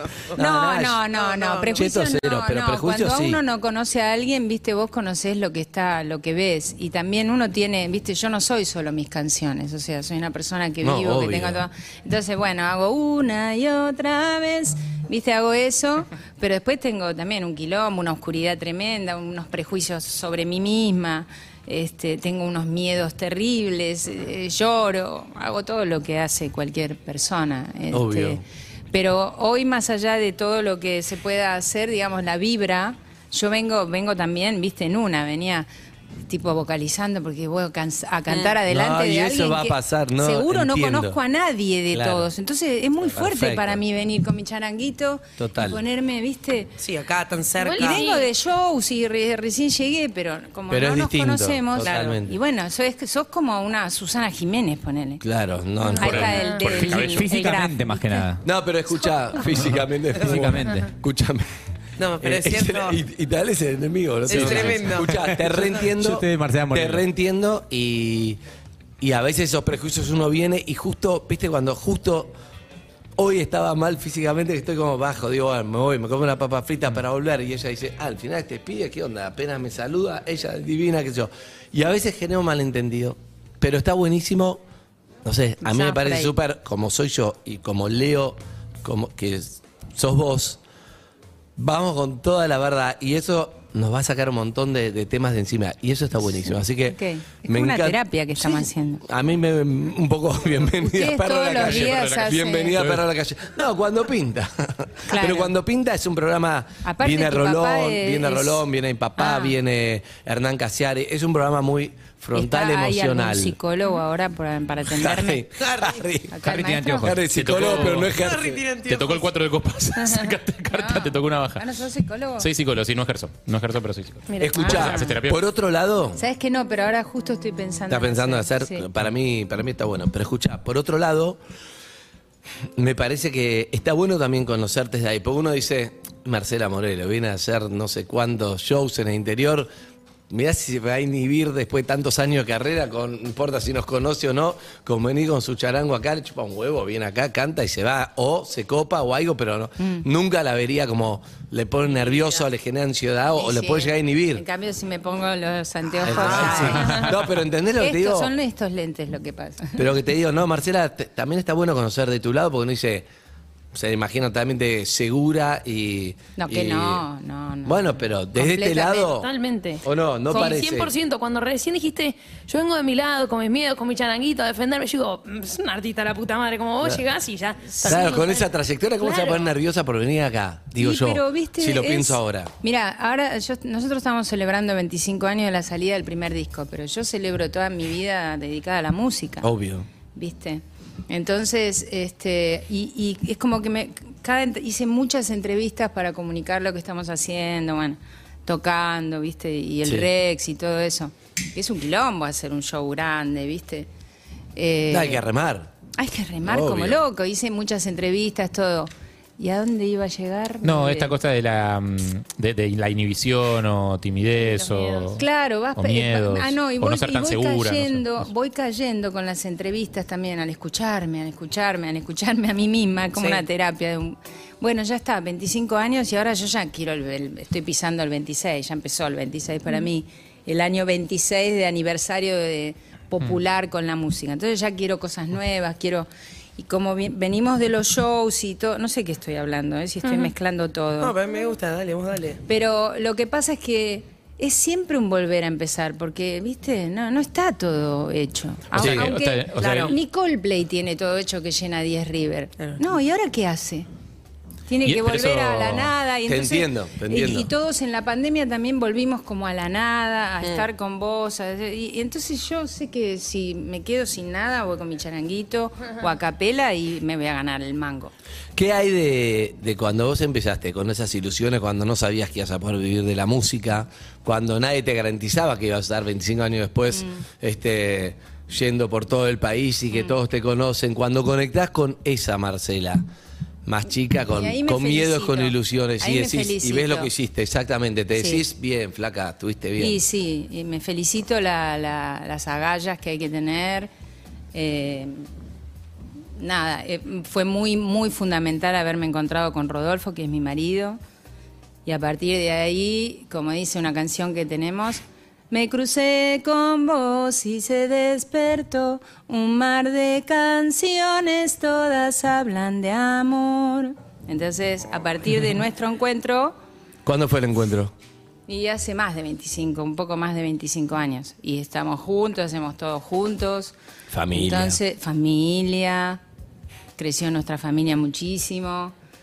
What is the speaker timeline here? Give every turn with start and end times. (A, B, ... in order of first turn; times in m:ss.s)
0:00.4-0:01.0 A
0:00.4-0:35.7 B
0:01.1-0:01.8 C
0:01.7-0:03.4 A
0:10.8-0:11.6 A
0:27.9-0:28.4 A
0:36.3-0:46.7 B
0:38.3-0:38.6 C
0:38.7-0:41.2 A
0:41.9-0:42.3 A
0:43.0-0:43.8 A
0:45.4-0:45.8 A
0:46.8-0:48.0 C
0:47.6-0:48.3 D
0:47.7-0:55.2 B
0:50.7-0:52.4 A
0:51.8-0:52.2 C
0:55.2-0:56.4 A
0:56.0-0:58.3 B
0:56.0-0:57.3 E
0:56.4-0:56.7 D
0:56.9-0:58.4 F
0:58.4-1:01.5 A
1:00.2-1:00.9 F
1:02.0-1:03.0 C
1:02.2-1:08.4 A
1:04.3-1:05.1 C
1:04.3-1:04.9 E
1:05.3-1:07.0 F
1:09.0-1:12.3 A
1:13.2-1:24.6 A
1:25.2-1:30.6 A
1:25.6-1:26.3 B
1:31.6-1:53.6 A
1:36.9-1:39.0 B
1:40.8-1:42.8 B
1:41.6-1:43.0 E
1:45.1-1:45.5 B
1:46.8-1:48.6 B
1:49.2-1:49.6 B
1:52.3-1:55.4 B
1:54.9-1:56.3 A
1:55.6-1:56.0 C
1:56.3-1:57.1 B
1:56.4-1:57.3 F
1:57.0-1:58.6 A
1:57.3-1:58.2 E
1:58.1-1:59.3 C
1:58.8-2:01.6 E
2:00.0-2:02.5 B
2:02.4-2:05.4 E
2:04.3-2:04.8 D
2:04.4-2:06.2 A
2:04.6-2:05.1 B
2:06.2-2:08.9 B
2:07.9-2:11.4 A
2:12.8-2:19.7 A
2:20.3-2:34.4 A
2:33.3-2:37.1 B
2:36.0-2:38.3 A
2:36.3-2:37.0 D
2:36.9-2:37.1 E
2:37.8-2:39.8 B
2:39.8-2:43.1 A
2:43.7-2:47.1 A
2:46.4-2:49.1 B
2:47.6-2:49.3 A
2:49.1-2:59.5 D
2:49.8-2:50.9 A
2:57.8-2:58.1 B
2:57.8-3:02.5 A
3:00.8-3:09.5 B
3:09.4-3:09.9 A
3:10.1-3:23.9 B
3:24.6-3:25.2 B
3:24.9-3:25.7 A
3:26.0-3:31.1 B
3:26.4-3:27.0 A
3:30.6-3:35.2 E
3:34.4-3:35.2 D
3:35.1-4:01.2 B
3:35.8-3:38.3 E
3:43.2-3:43.4 C
4:00.0-4:00.3 D
4:01.0-4:02.4 C
4:02.5-4:13.9 B
4:08.7-4:10.0 E
4:08.8-4:09.1 A
4:09.6-4:10.0 C
4:14.7-4:28.1 B
4:14.9-4:15.8 E
4:15.1-4:17.5 A
4:28.6-4:43.0 A
4:36.9-4:37.2 B
4:43.7-4:50.0 A
4:44.3-4:47.1 B
4:48.2-4:48.4 B
4:49.8-4:53.9 B
4:54.5-4:55.2 B
4:56.4-5:01.0 B
5:01.9-5:16.6 B
5:17.0-5:17.9 A
5:18.5-5:23.7 B
5:24.1-5:24.8 A
5:24.3-5:26.2 B
5:27.0-5:28.9 B